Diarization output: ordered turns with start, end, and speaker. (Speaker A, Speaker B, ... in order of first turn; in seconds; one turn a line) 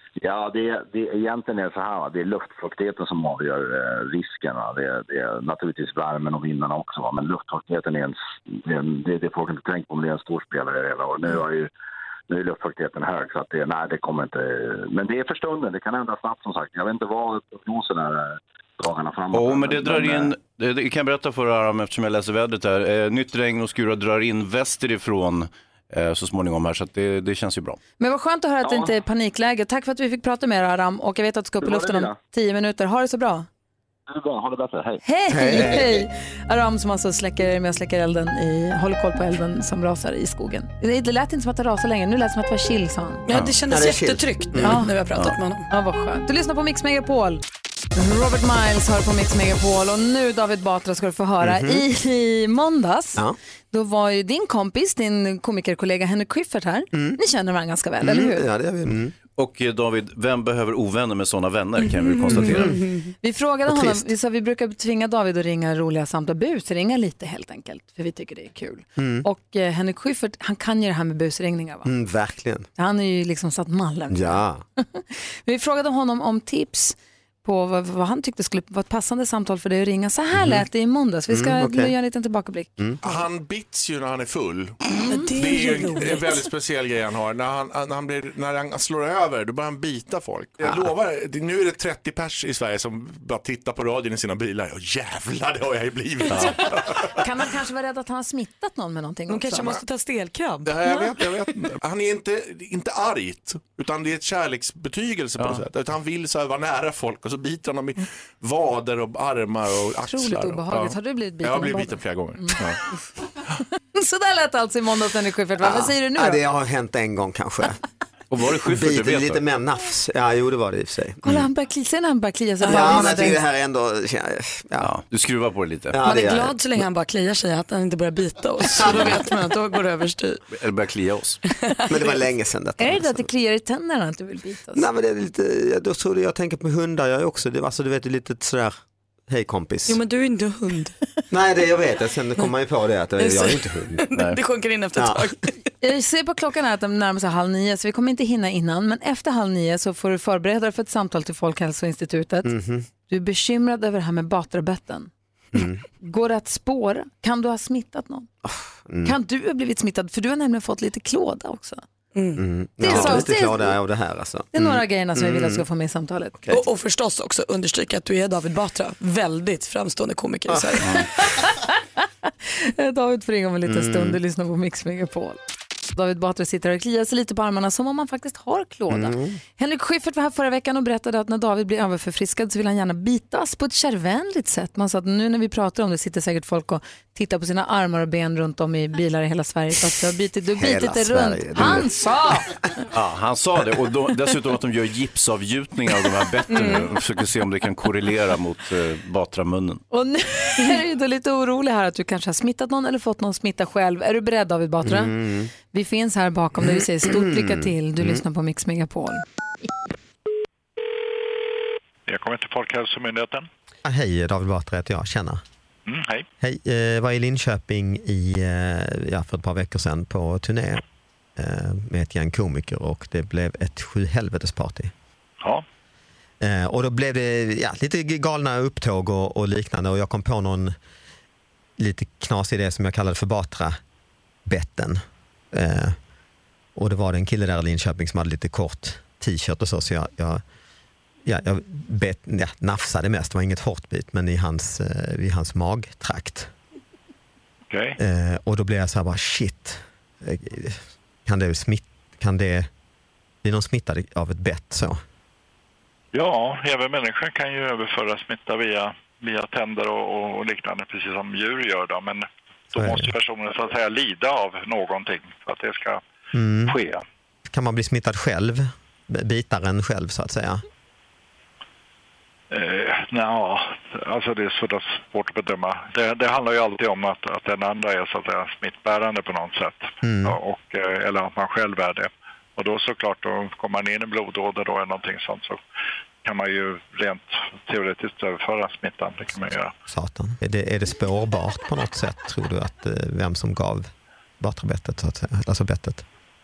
Speaker A: 0.2-11.7
Speaker A: 12.3-20.4
Speaker B: 19.3-27.8
Speaker C: 28.0-33.5
Speaker A: 28.6-28.9
Speaker A: 31.6-32.2
Speaker A: 34.1-35.0
Speaker C: 35.0-43.2
Speaker D: 35.3-36.0
Speaker E: 43.3-45.7
Speaker D: 43.7-44.9
Speaker C: 44.6-44.9
Speaker C: 45.7-47.4
Speaker C: 48.0-58.5
Speaker D: 51.4-51.8
Speaker D: 56.9-57.2
Speaker D: 58.0-59.1
Speaker B: 59.4-62.8
Speaker E: 62.3-62.7
Speaker D: 62.4-62.8
Speaker C: 63.2-71.9
Speaker D: 63.7-64.0
Speaker D: 69.0-69.3
Speaker D: 71.8-72.7
Speaker C: 72.8-74.4
Speaker D: 74.1-74.6
Speaker C: 74.9-82.8
Speaker D: 80.3-80.7
Speaker D: 81.3-82.0
Speaker F: 83.0-84.8
Speaker E: 84.9-86.4
Speaker F: 85.3-97.2
Speaker D: 90.6-90.9
Speaker C: 97.2-99.8
Speaker E: 99.3-101.5
Speaker F: 100.7-112.8
Speaker B: 105.4-105.6
Speaker C: 110.0-112.6
Speaker C: 114.0-116.4
Speaker D: 115.6-117.8
Speaker B: 118.3-119.4
Speaker D: 118.6-121.5
Speaker C: 121.2-123.4
Speaker E: 122.6-123.2
Speaker D: 122.7-124.9
Speaker B: 124.8-126.0
Speaker D: 125.9-126.6
Speaker E: 126.0-130.4
Speaker D: 128.6-129.2
Speaker B: 128.8-129.1
Speaker B: 130.5-131.4
Speaker D: 131.9-133.2
Speaker C: 132.8-134.9
Speaker D: 134.8-138.8
Speaker D: 139.3-140.0
Speaker E: 139.9-140.9
Speaker D: 141.3-144.0
Speaker E: 143.2-145.5
Speaker D: 144.9-145.3
Speaker C: 145.8-152.5
Speaker D: 152.4-152.9
Speaker C: 153.1-155.1
Speaker D: 155.5-155.8
Speaker C: 156.0-158.3
Speaker D: 158.4-159.2
Speaker C: 159.0-161.8
Speaker E: 162.2-162.4
Speaker D: 162.4-165.7
Speaker C: 162.8-163.7
Speaker C: 164.5-166.4
Speaker E: 166.5-170.9
Speaker C: 171.2-171.7
Speaker C: 172.4-175.4
Speaker D: 173.7-174.2
Speaker C: 175.9-192.5
Speaker D: 178.9-179.4
Speaker D: 190.6-191.9
Speaker B: 192.9-199.8
Speaker E: 196.5-196.9
Speaker C: 199.9-205.2
Speaker D: 204.8-205.5
Speaker C: 205.7-209.2
Speaker D: 206.6-208.2
Speaker G: 212.1-213.5
Speaker D: 213.8-215.4
Speaker G: 215.9-216.3
Speaker D: 216.4-220.8
Speaker D: 221.4-224.9
Speaker D: 226.4-230.8
Speaker D: 231.8-233.8
Speaker D: 234.5-235.0
Speaker D: 235.5-236.0
Speaker D: 236.8-240.4
Speaker D: 241.2-246.5
Speaker G: 247.7-248.0
Speaker D: 248.0-252.7
Speaker D: 253.4-255.0
Speaker G: 256.1-266.0
Speaker D: 262.7-263.1
Speaker D: 266.3-266.8
Speaker G: 266.7-267.0
Speaker D: 267.5-270.6
Speaker G: 272.5-285.6
Speaker D: 280.0-280.4
Speaker G: 286.2-289.7
Speaker D: 289.9-296.0